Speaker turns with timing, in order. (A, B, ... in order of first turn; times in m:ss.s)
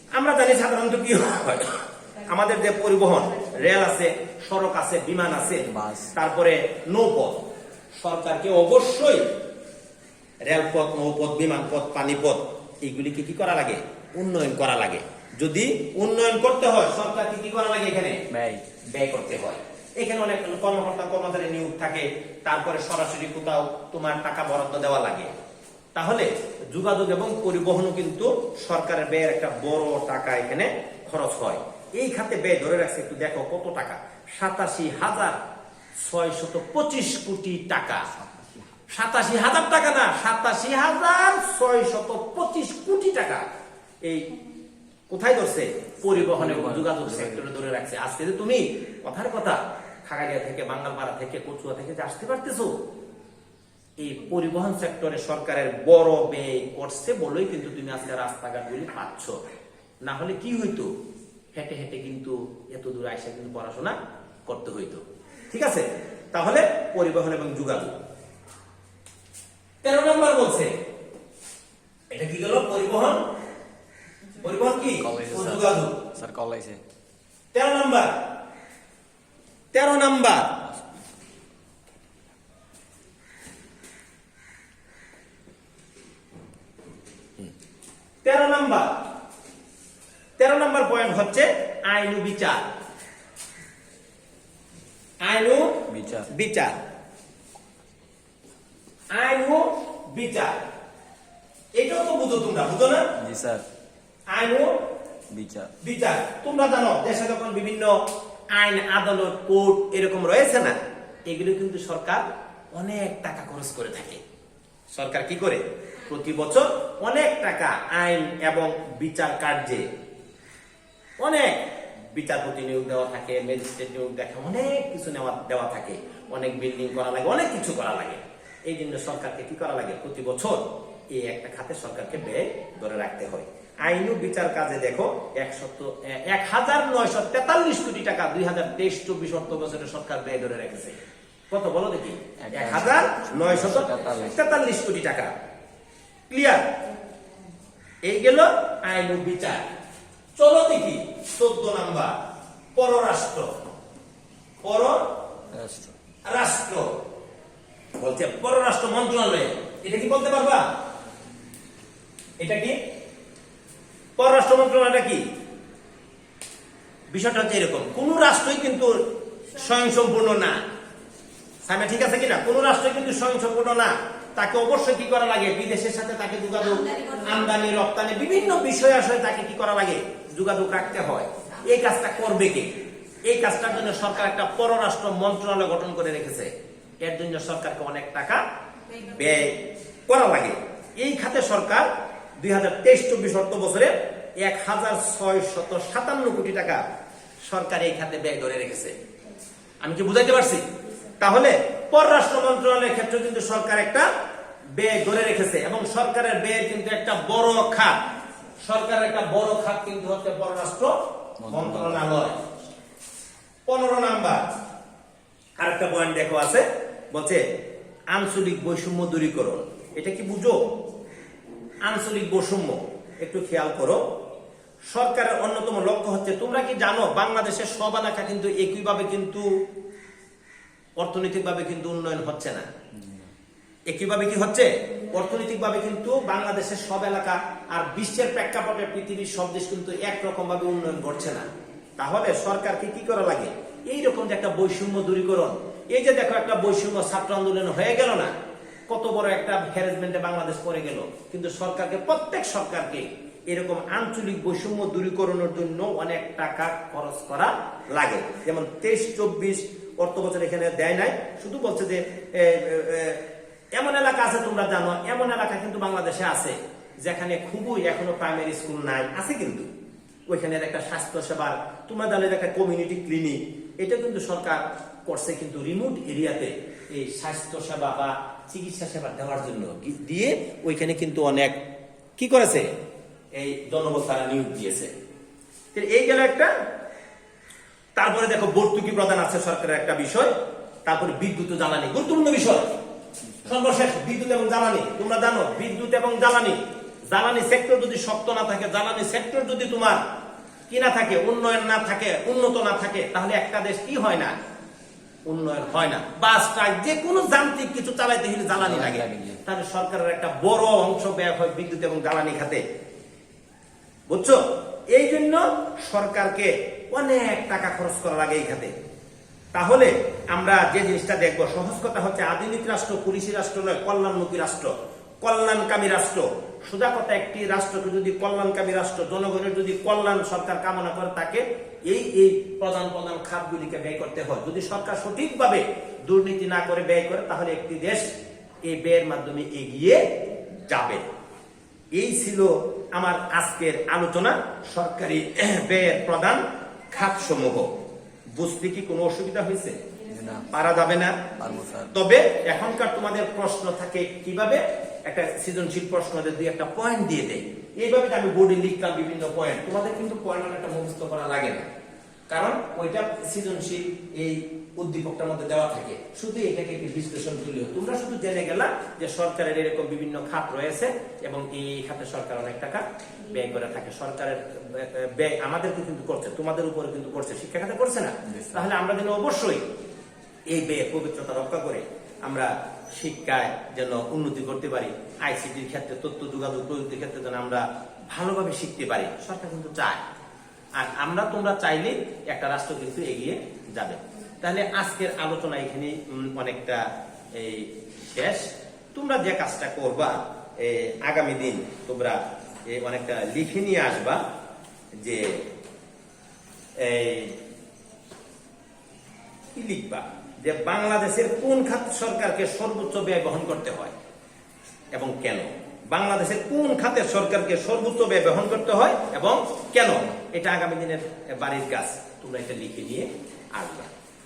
0:00.1-0:07.5 A
0:05.7-0:06.2 B
0:08.0-0:09.3 A
0:10.4-0:18.2 A
0:18.3-0:18.6 B
0:18.9-0:25.3 A
0:26.0-0:35.4 A
0:36.0-0:38.1 A
0:38.1-0:38.7 B
0:38.9-0:43.4 A
0:44.0-0:44.3 A
0:45.1-0:52.7 A
0:46.1-0:47.4 B
0:54.0-0:59.4 A
1:00.0-1:00.9 A
1:01.5-1:08.0 A
1:09.8-1:10.7 A
1:12.1-1:13.3 A
1:14.4-1:16.0 A
1:14.9-1:16.8 B
1:17.5-1:18.2 A
1:19.7-1:20.6 A
1:28.2-1:29.0 A
1:30.4-1:32.6 A
1:35.2-1:35.8 A
1:35.9-1:36.3 B
1:36.3-1:36.8 A
1:39.1-1:40.6 A
1:41.8-1:43.0 A
1:43.2-1:43.6 B
1:44.3-1:44.7 A
1:45.3-1:45.7 B
1:45.8-1:47.9 A
1:48.5-1:50.8 A
1:51.3-1:54.2 A
1:54.9-1:59.9 A
2:01.2-2:01.6 A
2:02.1-2:25.3 A
2:22.4-2:24.4 B
2:26.3-2:26.6 A
2:28.0-2:29.6 A
2:30.4-2:32.2 A
2:32.8-2:33.5 A
2:34.6-2:35.1 A
2:35.5-2:35.9 B
2:36.3-2:36.9 A
2:38.0-2:40.6 A
2:42.4-2:42.8 A
2:44.2-2:45.2 A
2:47.1-2:49.0 A
2:49.5-2:50.6 A
2:51.6-3:06.5 A
3:07.0-3:16.8 A
3:17.4-3:18.9 A
3:19.8-3:20.6 A
3:21.2-3:24.1 A
3:24.7-3:28.0 A
3:28.6-3:30.9 A
3:31.4-3:32.1 B
3:31.4-3:32.4 A
3:33.7-3:34.5 A
3:35.6-3:37.4 A
3:38.1-3:40.6 A
3:41.8-3:44.0 A
3:44.9-3:49.5 A
3:51.0-3:52.7 A
3:52.9-3:53.3 B
3:53.9-4:08.3 A
4:08.9-4:23.2 A
4:23.7-4:29.7 A
4:30.3-4:41.6 A
4:42.2-4:42.7 A
4:43.3-4:44.9 A
4:45.7-4:46.5 A
4:48.0-4:50.3 A
4:50.8-4:52.7 A
4:53.4-4:56.6 A
4:57.1-5:00.0 A
5:00.7-5:04.3 A
5:05.2-5:12.6 A
5:08.5-5:09.4 B
5:14.1-5:18.7 A
5:19.5-5:38.1 A
5:38.6-5:40.0 A
5:40.6-5:41.0 A
5:41.9-5:47.8 A
5:48.3-5:49.8 A
5:50.1-5:50.5 B
5:50.5-5:51.2 A
5:51.4-5:51.9 B
5:51.9-6:01.7 A
6:02.3-6:19.7 A
6:18.3-6:18.7 B
6:20.5-6:30.0 A
6:30.7-6:44.2 A
6:45.0-6:45.4 A
6:46.8-6:47.4 A
6:49.5-6:53.9 A
6:54.9-7:03.9 A